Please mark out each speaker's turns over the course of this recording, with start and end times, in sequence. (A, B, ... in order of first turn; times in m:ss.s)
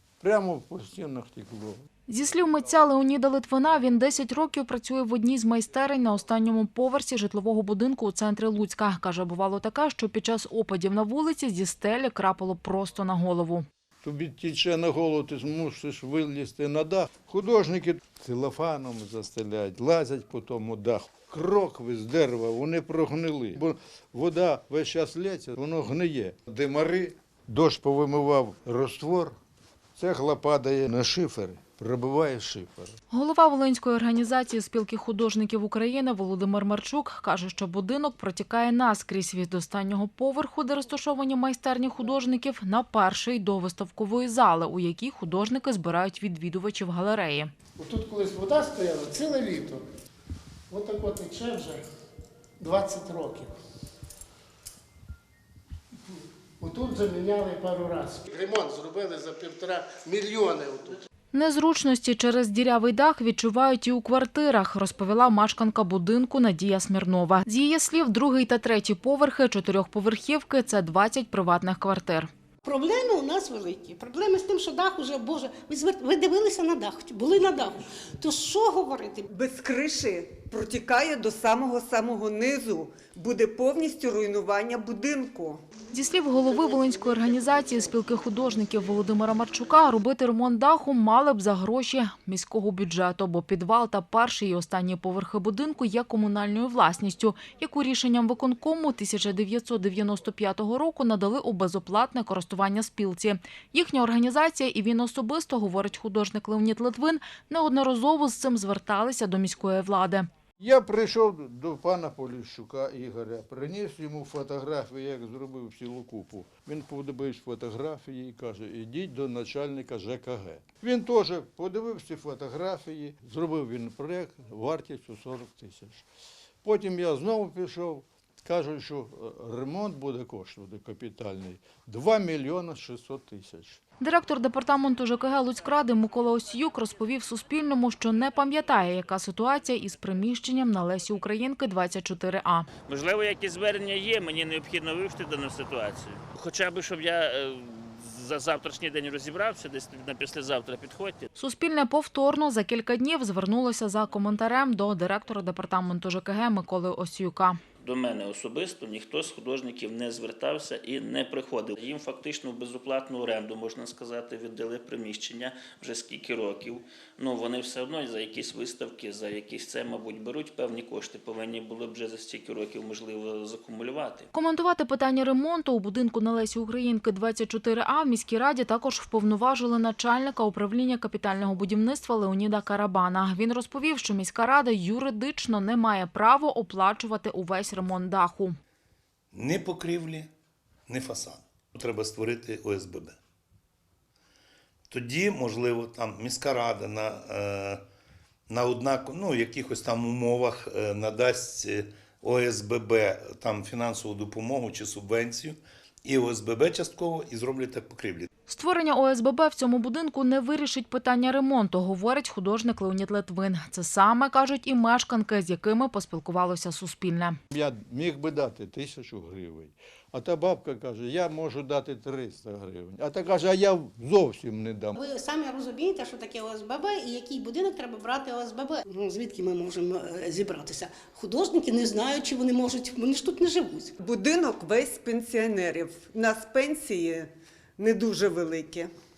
0:00.2-0:01.8 A
0:02.1-0:13.6 B
0:14.0-0:29.4 A
0:30.0-0:33.0 A
0:33.1-0:47.5 B
0:47.8-0:49.8 C
0:50.7-0:51.8 C
0:52.6-0:53.5 C
0:56.6-1:01.0 C
1:01.3-1:12.3 B
1:12.6-1:19.2 D
1:19.3-1:25.6 E
1:25.9-1:50.3 B
1:50.6-2:06.0 A
2:06.6-2:13.8 A
2:14.0-2:22.7 B
2:22.9-2:31.3 F
2:31.4-2:37.6 B
2:37.8-2:54.3 F
2:54.3-3:08.6 B
3:09.3-3:10.3 G
3:10.9-3:13.2 G
3:14.9-3:17.8 G
3:18.5-3:28.3 G
3:28.5-3:37.4 B
3:37.5-3:45.0 A
3:45.0-3:53.9 D
3:54.0-3:58.9 E